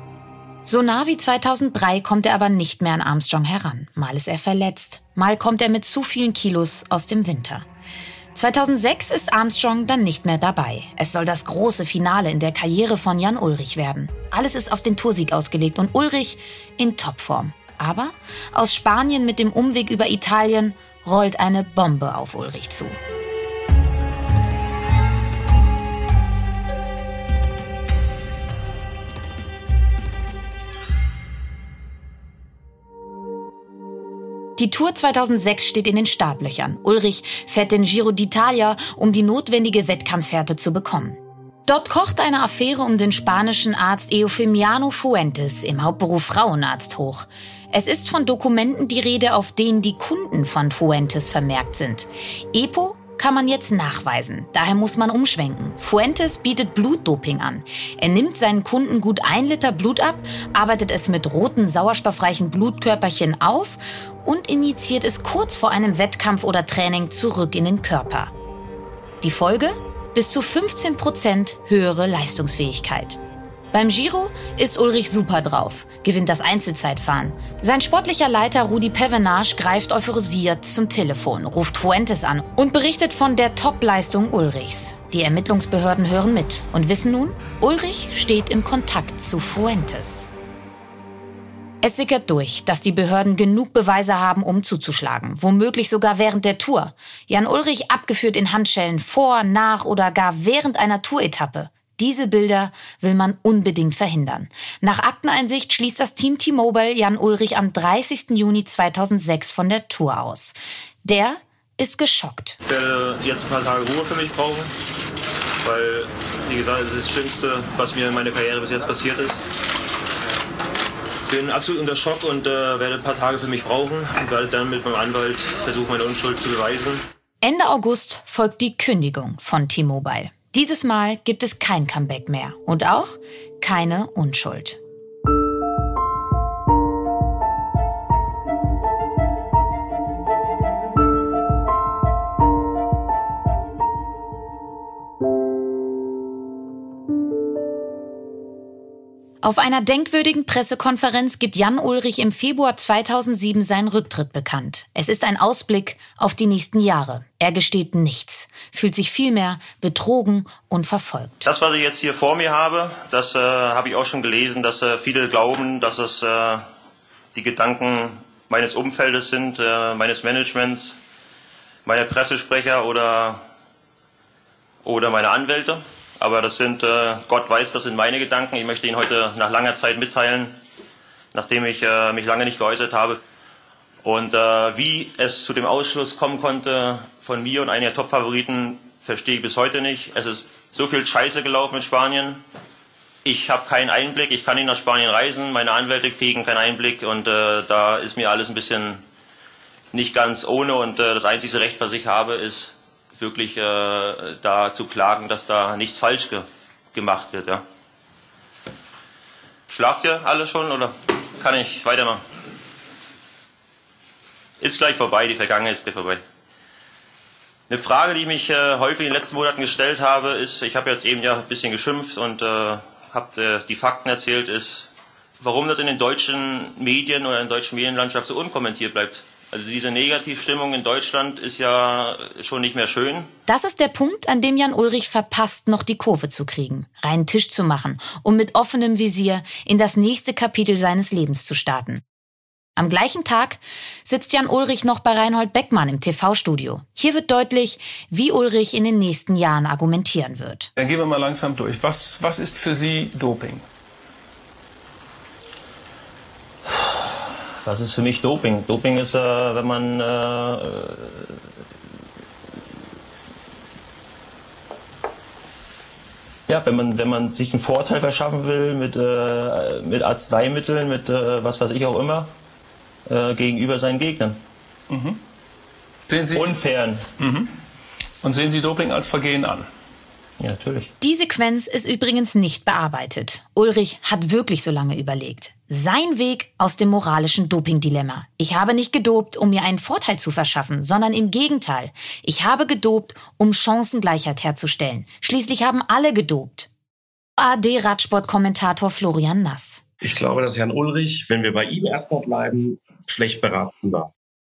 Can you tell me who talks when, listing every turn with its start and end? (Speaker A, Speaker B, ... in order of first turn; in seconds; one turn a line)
Speaker A: 0.7-7.7
Speaker A: 8.3-23.0
Speaker A: 34.6-68.3
Speaker A: 69.2-73.2
Speaker A: 73.7-90.3
Speaker A: 91.8-112.6
Speaker B: 112.7-114.7
Speaker B: 115.6-119.4
Speaker B: 121.3-127.0
Speaker A: 127.4-134.8
Speaker A: 149.4-161.5
Speaker B: 161.4-166.7
Speaker B: 167.3-171.0
Speaker B: 171.8-173.4
Speaker B: 174.8-180.6
Speaker B: 181.3-183.2
Speaker B: 184.0-192.4
Speaker B: 193.2-199.0
Speaker B: 199.9-207.6
Speaker B: 209.7-212.2
Speaker B: 214.6-216.2
Speaker B: 217.7-224.9
Speaker B: 225.4-233.3
Speaker A: 233.5-242.0
Speaker A: 242.8-250.7
Speaker C: 250.8-253.6
Speaker B: 257.6-261.4
Speaker B: 266.5-272.3
Speaker B: 273.1-274.4
Speaker C: 274.9-275.2
Speaker C: 276.1-276.6
Speaker B: 276.3-277.1
Speaker C: 277.2-277.5
Speaker C: 278.2-279.7
Speaker B: 280.4-280.9
Speaker A: 281.0-296.7
Speaker A: 297.4-299.8
Speaker D: 300.0-304.1